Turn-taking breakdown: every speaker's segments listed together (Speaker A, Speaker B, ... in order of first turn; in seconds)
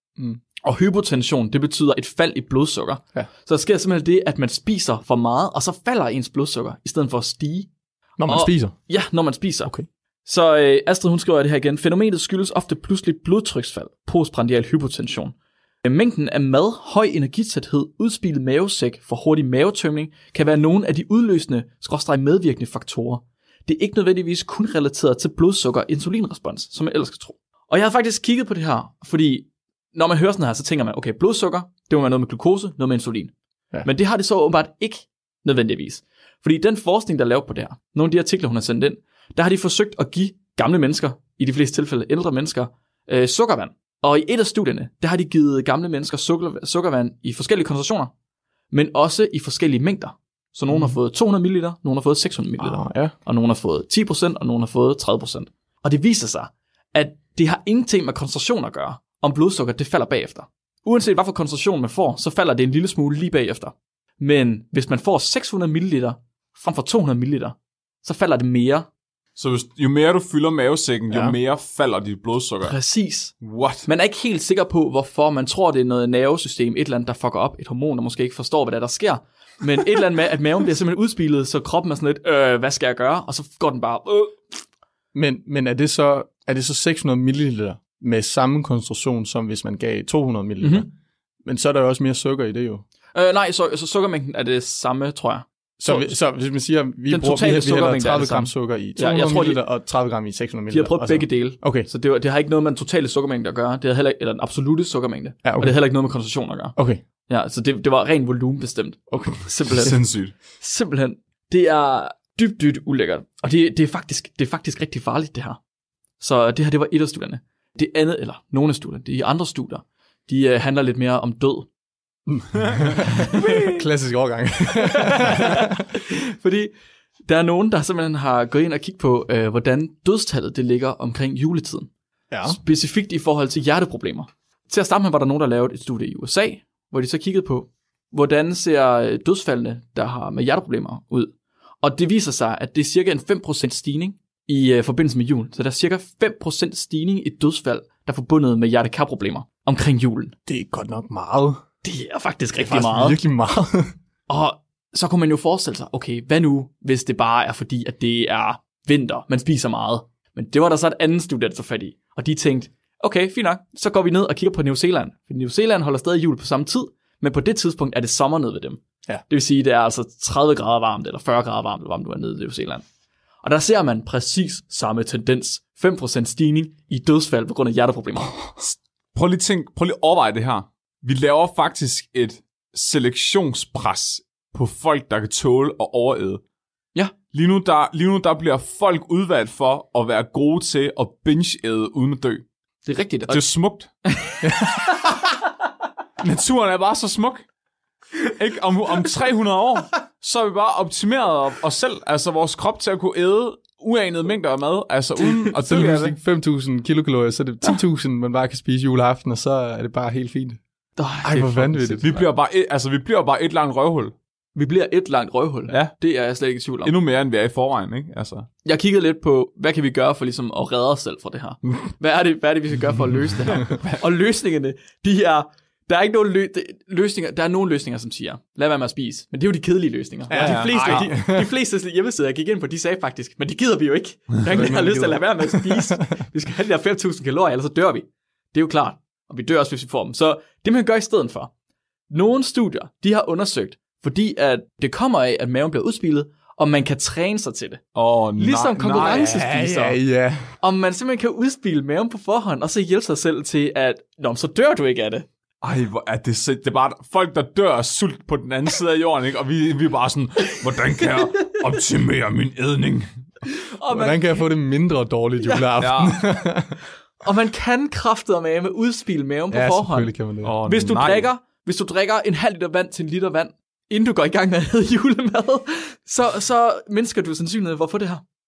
Speaker A: 0.6-7.7, 8.2-9.7, 10.2-33.3, 33.8-48.1, 48.7-68.9, 72.6-73.3, 73.8-84.4, 90.6-90.9, 93.1-96.1, 97.1-99.6, 100.7-110.0, 110.6-115.6, 116.2-121.7, 123.1-123.8, 124.8-126.7, 127.3-131.9, 132.4-150.3, 151.8-153.2, 154.3-172.8, 173.4-178.5, 192.8-193.4, 194.1-194.4, 211.0-212.2, 214.5-216.9, 218.6-241.5, 242.1-247.8, 248.4-250.0, 250.6-255.3, 263.4-264.4, 267.2-270.1, 270.6-278.2
Speaker B: 8.2-8.7, 52.6-53.1, 71.1-71.4, 85.1-90.9, 91.4-92.8, 95.8-101.9, 105.4-105.8, 106.8-107.0, 109.1-109.4, 122.3-125.8, 132.3-132.6, 150.5-151.6, 152.6-153.9, 194.4-195.0, 205.5-210.6, 211.2-212.2, 230.3-231.5, 234.4-236.0, 248.9-250.5, 263.9-266.8, 269.5-270.6
Speaker C: 69.3-72.8, 73.4-73.9, 109.7-110.3, 179.1-186.4, 187.3-192.4, 193.3-193.9, 196.2-197.4, 198.2-206.1, 212.0-214.1, 215.7-215.9, 216.8-218.5, 230.3-231.1, 247.9-249.3, 255.6-263.1, 265.8-266.2, 270.4-271.3